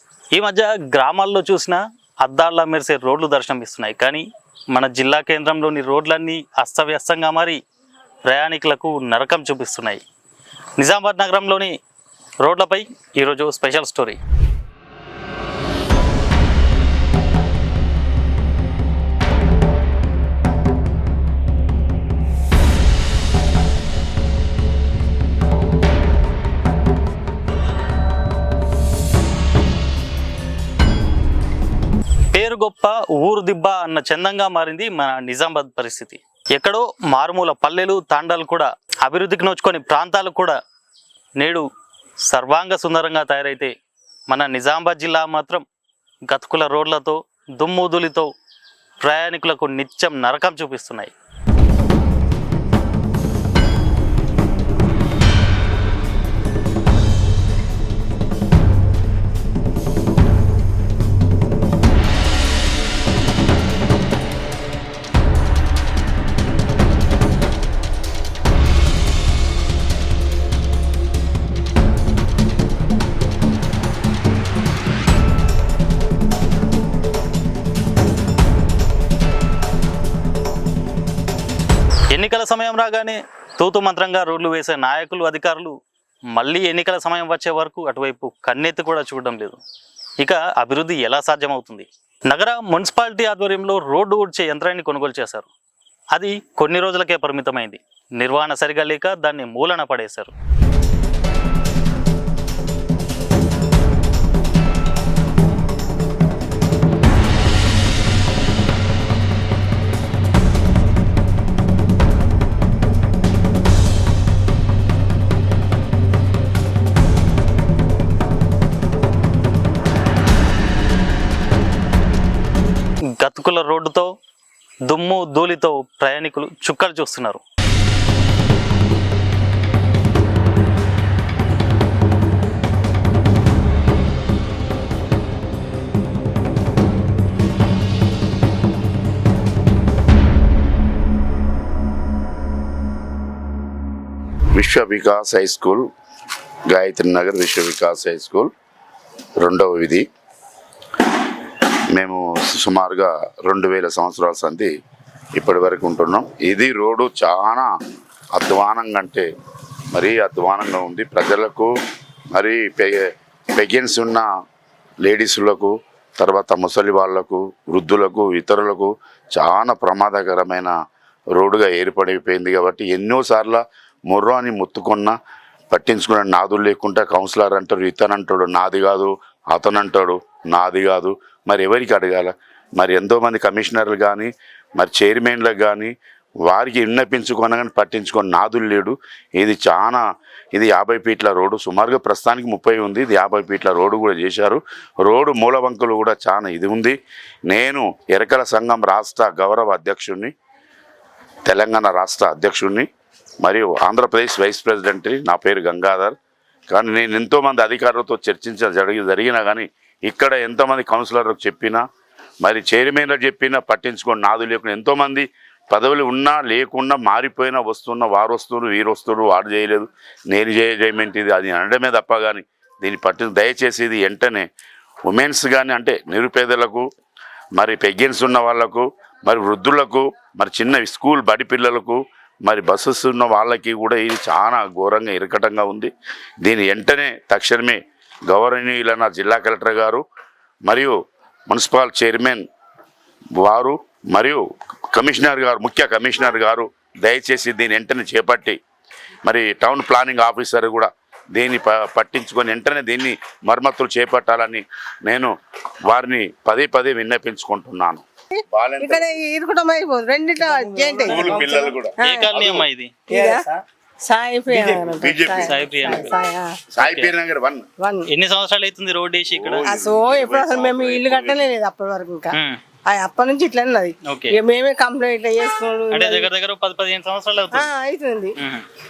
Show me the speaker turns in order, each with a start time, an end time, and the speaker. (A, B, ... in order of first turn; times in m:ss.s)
0:00.3-0:07.6 A
0:08.3-0:10.0 A
0:10.8-0:11.7 A
0:12.4-0:14.2 A
0:32.3-0:40.6 A
0:41.4-0:41.6 A
0:42.3-0:43.7 A
0:44.3-0:45.7 A
0:46.3-0:48.3 A
0:49.0-0:51.1 A
1:22.1-1:25.7 A
1:26.3-1:29.6 A
1:30.2-1:35.5 A
1:36.1-1:40.3 A
2:03.2-2:04.1 A
2:04.9-2:07.4 A
2:24.6-2:25.8 B
2:26.7-2:28.5 B
2:29.4-2:30.0 B
2:31.9-2:34.7 B
2:35.4-2:37.7 B
2:38.3-2:39.3 B
2:39.9-2:41.7 B
2:42.3-2:44.3 B
2:45.0-2:50.7 B
2:51.3-2:55.2 B
2:55.7-3:05.9 B
3:06.5-3:17.0 B
3:17.5-3:20.3 B
3:21.5-3:22.9 B
3:23.4-3:26.2 B
3:26.7-3:31.8 B
3:32.4-3:44.5 B
3:45.1-3:46.9 B
3:47.6-3:55.9 B
3:56.4-4:00.0 B
4:00.7-4:01.0 B
4:01.5-4:02.4 B
4:03.4-4:08.6 B
4:09.3-4:15.3 B
4:15.9-4:19.2 B
4:18.3-4:22.4 C
4:21.0-4:22.7 B
4:22.0-4:23.1 A
4:23.1-4:26.6 C
4:24.5-4:25.6 B
4:25.5-4:26.1 A
4:26.7-4:27.6 B
4:26.8-4:27.1 A
4:27.8-4:28.1 C
4:28.1-4:29.6 A
4:29.3-4:31.5 B
4:29.6-4:36.3 C
4:32.3-4:32.6 A
4:34.0-4:34.4 A
4:35.9-4:37.7 A
4:37.5-4:38.4 C
4:38.4-4:38.6 A